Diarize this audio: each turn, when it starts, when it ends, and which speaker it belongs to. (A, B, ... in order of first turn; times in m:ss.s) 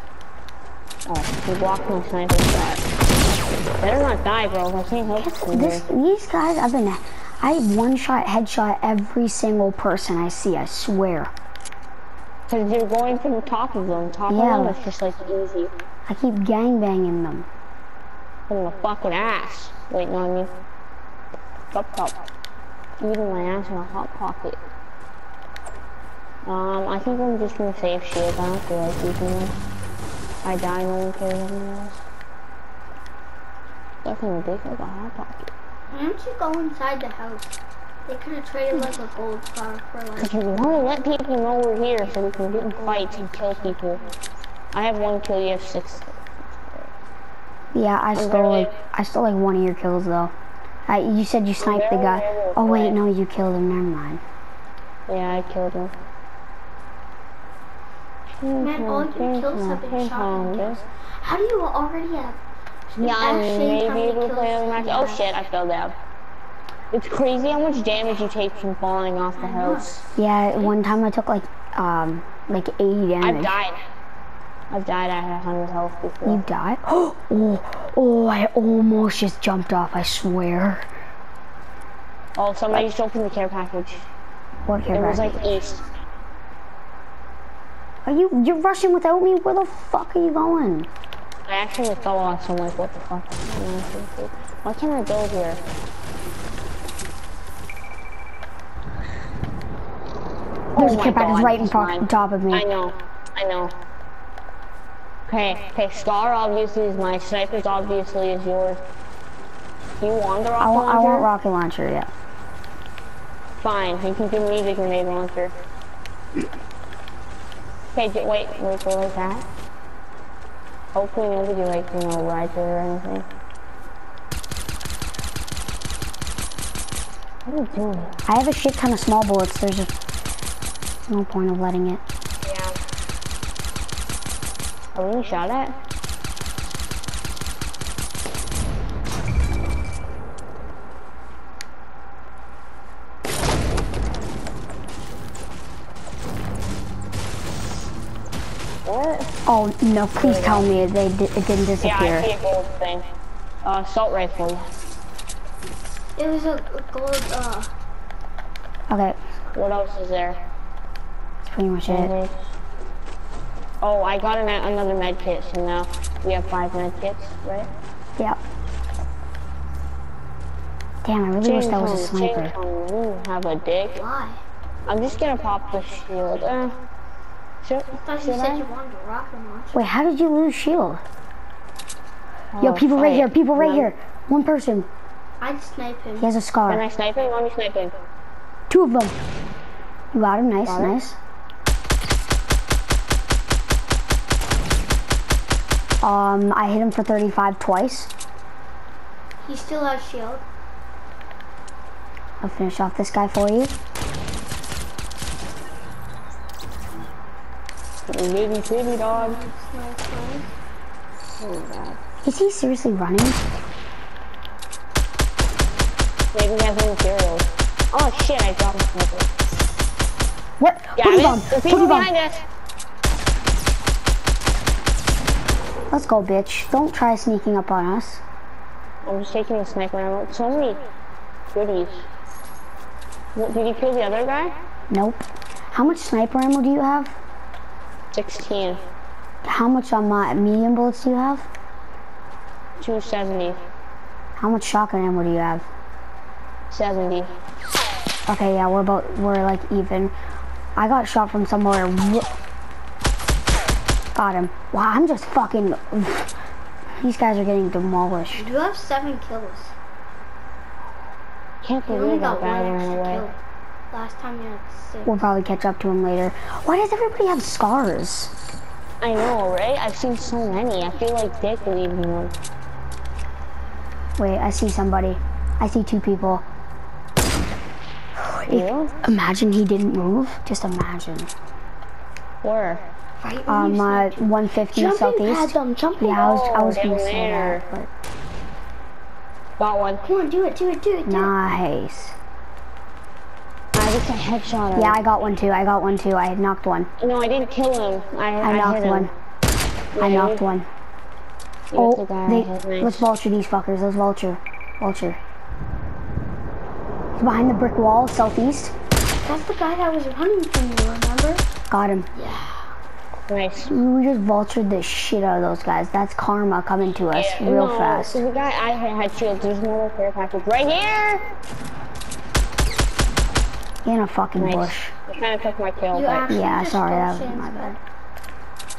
0:01.0-0:02.8 A
0:03.8-0:05.8 A
0:05.2-0:11.3 B
0:12.5-0:15.8 A
0:14.3-0:14.8 B
0:16.1-0:17.5 B
0:18.5-0:20.6 A
0:21.7-0:22.2 A
0:23.0-0:24.6 A
0:26.4-0:29.6 A
0:30.4-0:32.0 A
0:34.0-0:35.5 A
0:35.9-0:37.6 C
0:38.1-0:40.8 C
0:40.2-0:44.1 A
0:44.7-0:46.9 A
0:47.7-0:50.3 B
0:48.1-0:48.8 A
0:50.9-0:54.2 B
0:51.6-0:53.0 A
0:55.1-0:56.0 A
0:58.4-1:00.8 A
0:58.6-1:02.4 C
1:02.9-1:05.2 C
1:03.0-1:06.0 A
1:06.9-1:10.0 A
1:09.4-1:10.0 C
1:10.2-1:13.5 B
1:13.2-1:13.8 A
1:14.7-1:16.4 A
1:16.2-1:20.9 B
1:22.4-1:24.0 A
1:24.6-1:25.4 B
1:24.9-1:25.9 A
1:28.0-1:30.9 B
1:31.4-1:35.7 A
1:40.7-1:43.8 A
1:40.7-1:42.6 B
1:45.3-1:48.8 A
1:50.0-1:51.3 A
1:50.6-1:52.1 B
1:53.6-1:55.5 A
1:57.9-1:59.4 A
2:00.9-2:03.3 A
2:07.4-2:08.2 A
2:08.3-2:09.9 B
2:11.1-2:12.0 B
2:12.4-2:12.8 A
2:14.9-2:15.8 A
2:28.8-2:29.3 A
2:29.4-2:32.3 B
2:30.2-2:30.7 A
2:31.8-2:33.1 A
2:33.6-2:34.7 A
2:36.2-2:37.7 C
2:38.9-2:39.2 B
2:39.5-2:40.4 A
2:41.4-2:42.1 B
2:41.9-2:42.4 A
2:43.8-2:47.7 A
2:51.0-2:52.5 B
2:51.4-2:54.0 A
2:53.9-2:54.4 C
2:54.9-2:56.8 A
2:57.6-2:58.7 A
2:58.0-2:59.8 C
2:59.7-3:01.0 B
3:02.5-3:03.9 A
3:02.6-3:04.9 B
3:05.4-3:06.3 C
3:06.2-3:06.8 B
3:06.7-3:07.9 A
3:08.7-3:09.2 B
3:10.1-3:11.2 B
3:10.6-3:11.0 A
3:16.0-3:18.1 B
3:19.4-3:20.4 C
3:22.4-3:23.7 B
3:28.1-3:29.4 A
3:28.9-3:30.6 C
3:31.4-3:32.0 A
3:32.2-3:33.4 B
3:36.3-3:39.3 A
3:40.6-3:42.1 B
3:41.0-3:42.4 A
3:45.9-3:48.2 B
3:49.0-3:50.8 A
3:51.5-3:52.1 A
3:53.3-3:54.6 A
3:54.9-3:57.2 B
3:58.1-3:58.8 A
3:59.4-4:01.5 B
4:02.8-4:03.7 A
4:04.4-4:05.6 B
4:06.7-4:07.4 A
4:08.3-4:10.1 B
4:10.8-4:12.3 B
4:14.1-4:16.3 B
4:17.0-4:18.4 B
4:18.3-4:19.7 C
4:21.6-4:23.2 A
4:21.9-4:23.3 C
4:23.9-4:25.2 C
4:25.0-4:28.3 B
4:29.0-4:32.4 A
4:34.2-4:36.4 B
4:38.3-4:41.3 B
4:38.5-4:39.0 A
4:42.4-4:42.9 A
4:43.2-4:46.2 C
4:43.5-4:47.9 B
4:46.1-4:47.6 A
4:49.6-4:50.0 A
4:50.0-4:51.3 C
4:51.0-4:52.1 B
4:53.7-4:55.0 A
4:54.7-4:56.9 B
4:57.0-4:59.1 A
4:58.4-4:59.1 B
4:59.9-5:00.4 A
5:00.0-5:00.6 B
5:01.7-5:03.1 A
5:01.8-5:05.2 B
5:07.2-5:08.7 B
5:09.2-5:11.4 C
5:11.7-5:12.1 B
5:12.1-5:12.7 C
5:13.3-5:13.7 A
5:13.6-5:18.2 B
5:17.1-5:21.3 A
5:23.8-5:24.9 B
5:24.4-5:26.4 A
5:25.9-5:27.8 C
5:26.3-5:27.8 B